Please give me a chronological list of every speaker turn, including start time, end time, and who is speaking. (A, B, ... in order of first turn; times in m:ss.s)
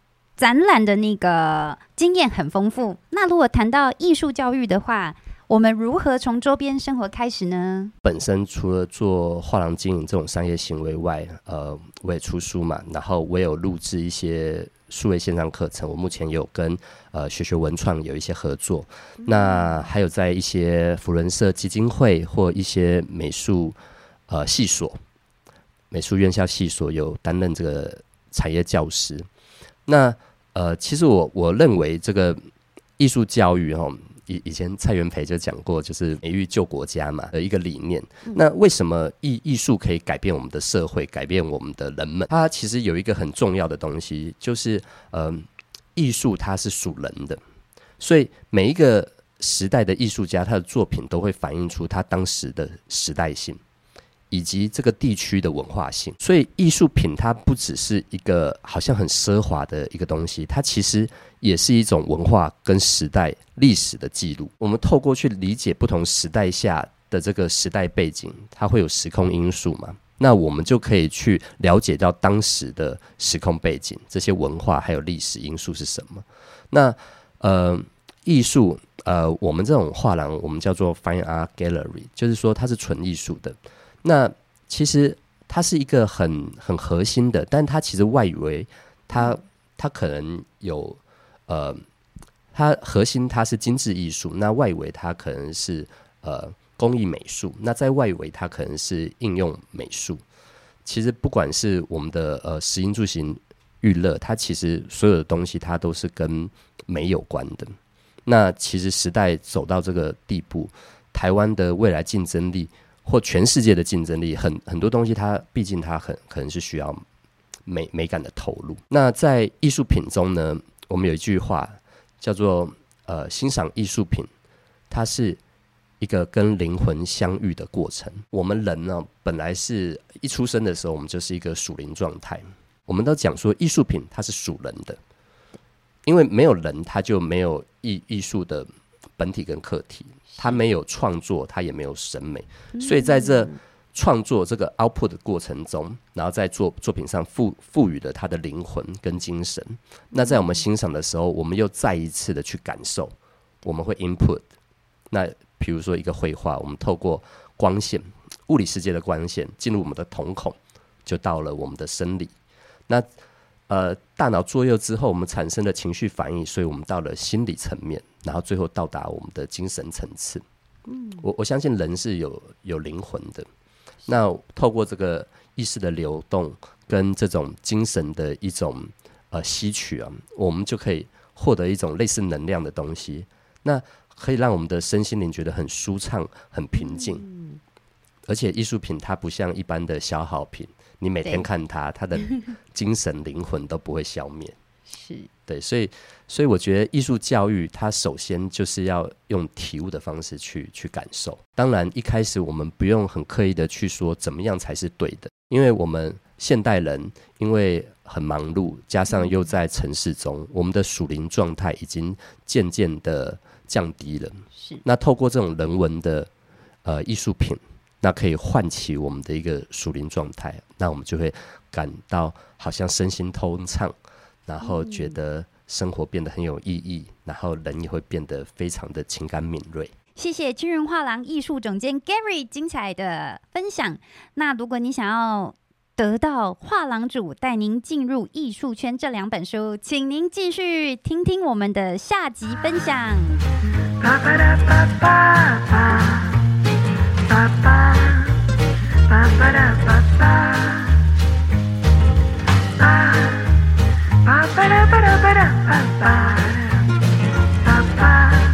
0:00.4-0:07.9 A
0:08.0-0:23.8 B
0:19.2-0:19.7 A
0:24.3-0:25.0 B
0:25.9-0:29.3 B
0:29.9-0:32.4 B
0:33.0-0:47.4 B
0:48.0-0:53.6 B
0:54.3-1:31.8 B
1:32.5-1:40.2 B
1:40.8-1:47.7 B
1:48.2-1:57.0 B
1:57.6-2:04.3 B
2:04.9-2:05.4 B
2:06.0-2:15.0 B
2:16.0-2:33.1 B
2:20.3-2:20.6 A
2:22.7-2:23.6 A
2:30.1-2:30.6 A
2:33.6-2:34.4 B
2:35.1-2:42.3 B
2:43.7-2:50.4 B
2:50.9-2:51.2 A
2:51.2-2:53.5 B
2:54.1-3:07.2 B
3:06.8-3:07.6 A
3:08.3-3:14.5 B
3:14.9-3:15.3 A
3:15.5-3:36.3 B
3:29.1-3:29.4 A
3:34.6-3:34.8 A
3:36.8-3:43.9 B
3:44.5-3:49.9 B
3:44.6-3:45.1 A
3:50.2-4:03.4 A
4:04.0-4:06.2 A
4:09.2-4:09.7 A